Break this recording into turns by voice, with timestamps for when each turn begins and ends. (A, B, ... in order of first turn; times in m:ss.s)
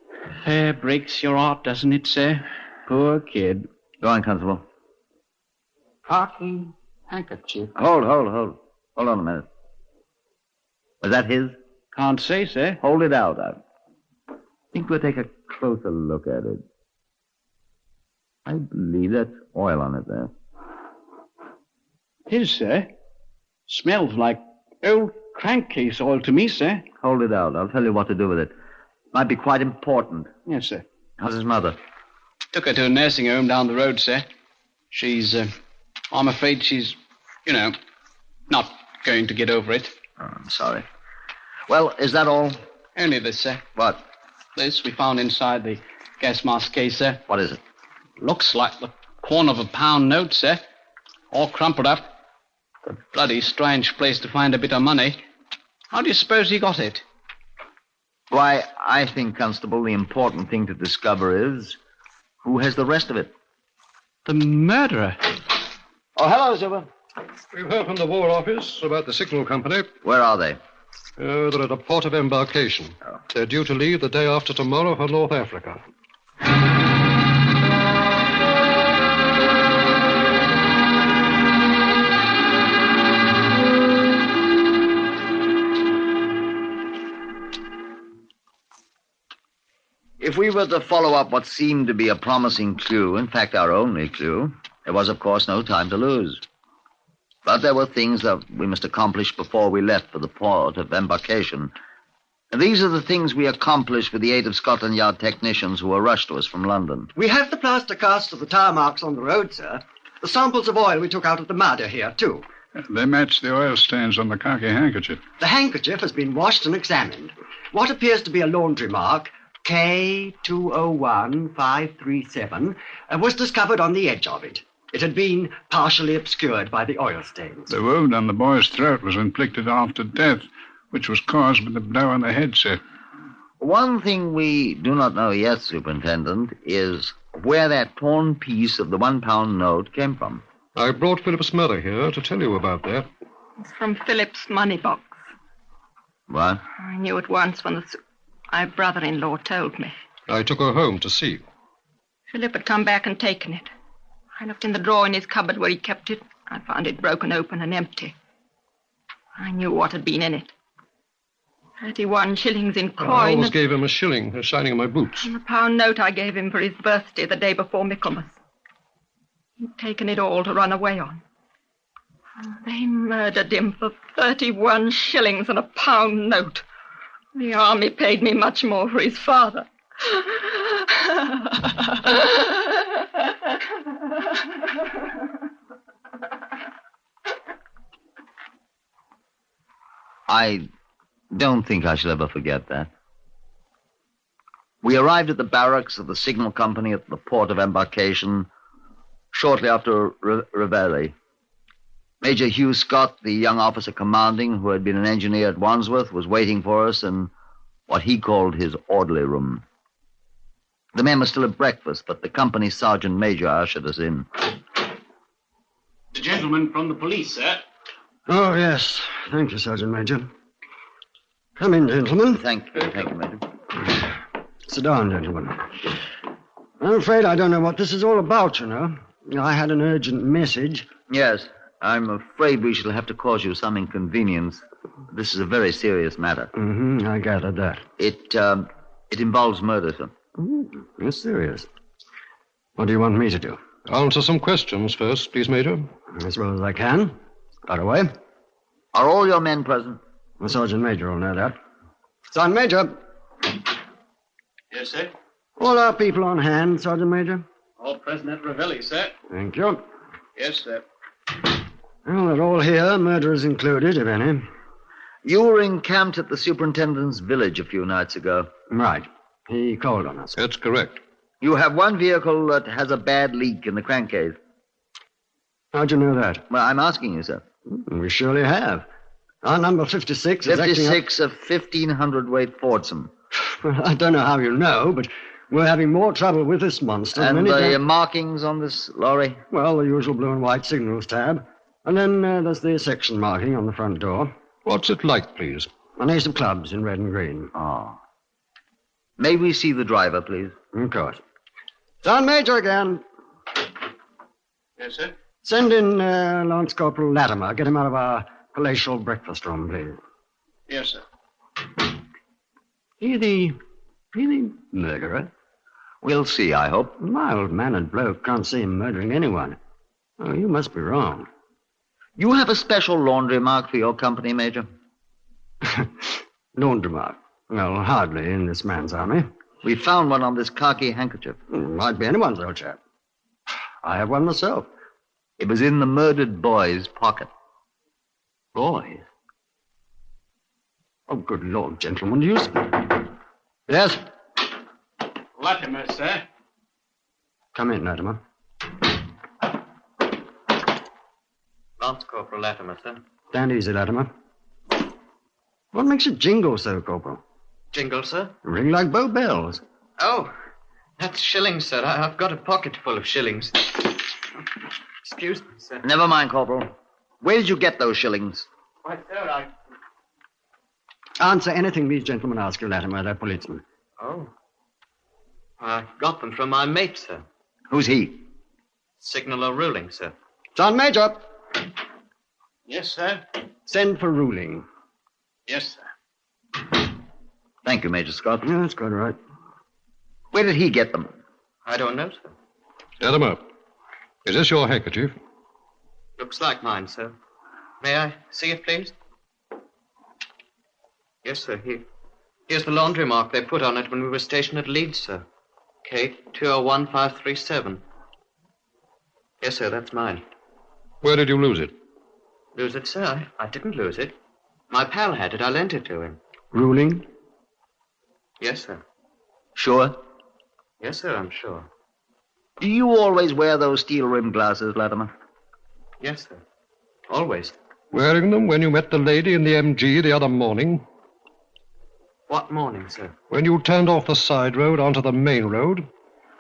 0:00.4-0:03.7 A
0:04.0-0:04.6 B
0:06.1-0:07.7 A
0:07.8-0:09.5 B
0:11.0-0:11.6 B
0:12.0-0:12.8 A
0:12.8-0:13.6 B
0:14.7-0:16.6 B
0:18.5-0:20.3 B
0:22.3-0:22.9 A
0:23.7-0:26.9 A
0:27.0-0:28.5 B
0:29.1-0:30.3 B
0:30.5-0:30.8 A
0:31.2-0:31.8 B
0:32.5-0:34.3 A
0:34.9-0:35.5 A
0:36.1-0:37.8 A
0:38.5-0:39.9 A
0:40.2-0:40.8 B
0:41.7-0:42.6 B
0:43.0-0:43.6 A
0:43.8-0:44.0 B
0:44.6-0:47.2 A
0:47.3-0:47.6 B
0:48.2-0:50.6 A
0:51.3-0:52.1 A
0:52.9-0:55.2 A
0:55.9-0:57.0 A
0:58.3-1:01.8 B
1:02.4-1:03.3 B
1:04.3-1:05.2 A
1:06.2-1:06.9 B
1:07.5-1:09.9 C
1:10.0-1:10.6 B
1:11.2-1:15.8 C
1:30.2-1:36.4 B
1:37.4-1:41.7 B
1:42.5-1:47.1 B
1:47.2-1:52.4 D
1:52.8-1:55.2 E
1:55.4-2:07.7 D
2:07.7-2:12.8 E
2:13.6-2:20.4 B
2:20.8-2:23.1 C
2:23.6-2:25.2 F
2:26.3-2:26.6 B
2:26.8-2:28.0 F
2:28.5-2:29.9 F
2:30.3-2:31.4 C
2:32.3-2:33.7 F
2:34.4-2:38.1 F
2:39.4-2:40.5 F
2:41.8-2:43.6 F
2:43.0-2:45.3 C
2:45.2-2:48.4 F
2:49.6-2:51.2 F
2:52.4-2:56.6 F
2:57.4-3:02.8 F
3:10.3-3:10.7 B
3:11.3-3:12.9 B
3:14.8-3:18.5 B
3:19.3-3:21.1 B
3:22.2-3:27.3 B
3:27.9-3:29.6 B
3:31.0-3:34.3 B
3:36.1-3:37.6 A
3:38.3-3:40.3 D
3:41.6-3:42.4 D
3:42.3-3:43.4 B
3:44.7-3:45.8 D
3:46.8-3:50.9 D
3:51.1-3:56.5 B
3:56.6-3:57.8 D
3:58.0-4:00.1 B
4:00.4-4:01.7 D
4:02.8-4:03.7 D
4:03.9-4:05.9 C
4:06.1-4:07.1 D
4:07.7-4:08.1 D
4:08.9-4:10.0 B
4:10.4-4:11.6 D
4:12.3-4:13.0 D
4:14.7-4:15.1 A
4:15.6-4:17.4 D
4:17.8-4:19.1 A
4:19.3-4:19.8 D
4:20.4-4:20.8 A
4:22.1-4:24.4 D
4:25.2-4:28.5 B
4:28.7-4:30.4 D
4:30.4-4:31.0 C
4:31.4-4:34.4 B
4:35.7-4:36.4 D
4:36.5-4:37.4 B
4:37.7-4:38.9 D
4:39.4-4:41.0 D
4:40.4-4:43.1 B
4:43.4-4:47.8 D
4:47.2-4:49.4 B
4:49.5-4:54.3 D
4:54.6-4:55.7 C
4:56.0-4:57.5 D
4:57.6-4:58.0 B
4:59.2-5:00.5 B
5:00.7-5:01.2 D
5:02.0-5:03.0 D
5:04.8-5:05.1 A
5:05.4-5:10.0 D
5:10.7-5:11.0 A
5:13.0-5:13.6 D
5:14.1-5:15.3 D
5:16.0-5:17.0 B
5:17.0-5:19.6 D
5:20.2-5:21.3 D
5:22.2-5:24.7 B
5:25.6-5:29.3 D
5:29.6-5:31.4 B
5:31.5-5:32.8 D
5:33.8-5:34.7 D
5:35.4-5:37.3 B
5:38.6-5:39.0 B
5:41.1-5:43.0 D
5:43.7-5:44.0 D
5:45.4-5:46.2 A
5:47.5-5:48.2 D
5:51.8-5:53.0 G
5:53.3-5:54.1 D
5:55.7-5:57.2 D
5:57.7-5:58.3 G
5:58.4-5:59.6 D
6:00.0-6:00.3 G
6:01.0-6:04.1 G
6:05.0-6:05.8 G
6:05.8-6:06.7 B
6:07.2-6:08.5 B
6:08.8-6:09.5 G
6:11.2-6:13.6 D
6:14.0-6:14.3 G
6:15.6-6:17.2 G
6:17.7-6:18.2 B
6:19.0-6:20.1 G
6:20.6-6:21.2 D
6:22.7-6:23.2 A
6:23.7-6:24.6 D
6:25.5-6:25.8 A
6:27.6-6:28.4 B
6:28.4-6:29.2 D
6:30.3-6:31.1 B
6:31.7-6:32.3 G
6:33.0-6:33.4 C
6:34.2-6:35.2 C
6:36.2-6:37.2 G
6:37.8-6:38.9 G
6:41.2-6:41.9 G
6:42.5-6:45.2 G
6:45.8-6:47.8 G
6:49.4-6:50.2 G
6:51.0-6:51.7 C
6:52.6-6:54.2 G
6:54.7-6:56.2 G
6:56.5-6:57.0 D
6:58.4-6:58.8 G
6:59.6-7:00.0 B
7:00.8-7:01.7 G
7:02.6-7:05.1 B
7:06.0-7:06.4 G
7:07.1-7:07.6 G
7:07.9-7:10.8 C
7:12.3-7:13.1 G
7:13.3-7:15.9 C